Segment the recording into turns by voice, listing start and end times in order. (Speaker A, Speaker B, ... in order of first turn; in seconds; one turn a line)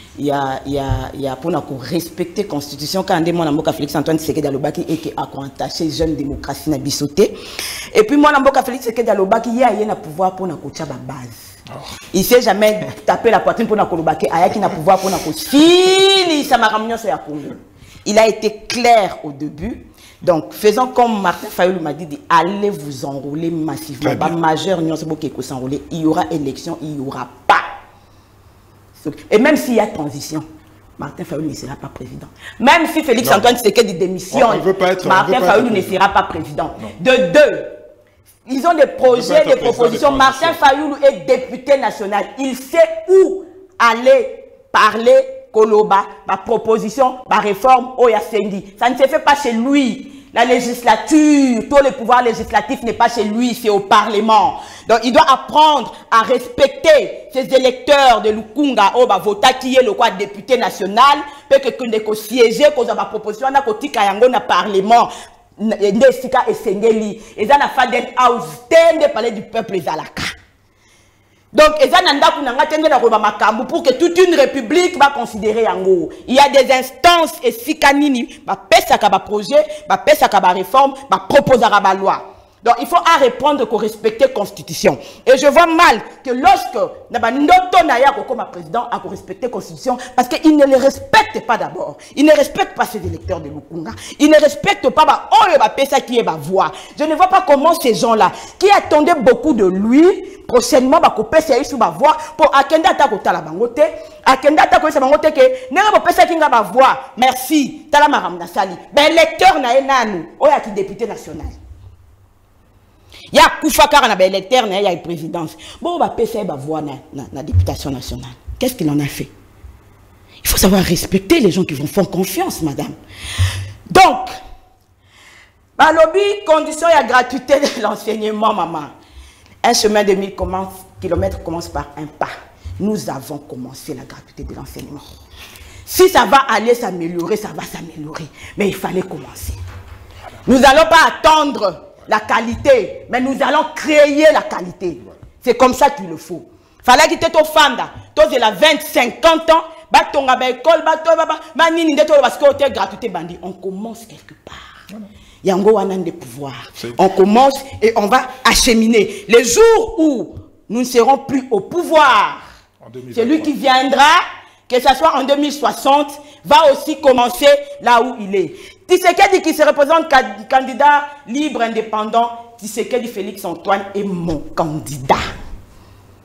Speaker A: 0.2-7.3
Speaker A: 7.9-11.5
Speaker A: 12.1-27.7
Speaker B: 24.0-24.4
Speaker A: 29.0-30.4
Speaker A: 31.0-37.7
Speaker B: 33.2-33.6
Speaker B: 34.3-36.0
Speaker A: 38.5-70.3
Speaker B: 39.1-40.6
Speaker A: 71.5-111.6
Speaker A: 113.3-119.3
Speaker A: 120.4-123.0
Speaker A: 123.9-124.3
Speaker A: 125.8-128.9
Speaker A: 129.6-135.1
Speaker A: 135.9-139.6
Speaker A: 140.5-154.8
Speaker A: 155.4-162.4
Speaker B: 162.8-163.5
Speaker A: 163.1-175.3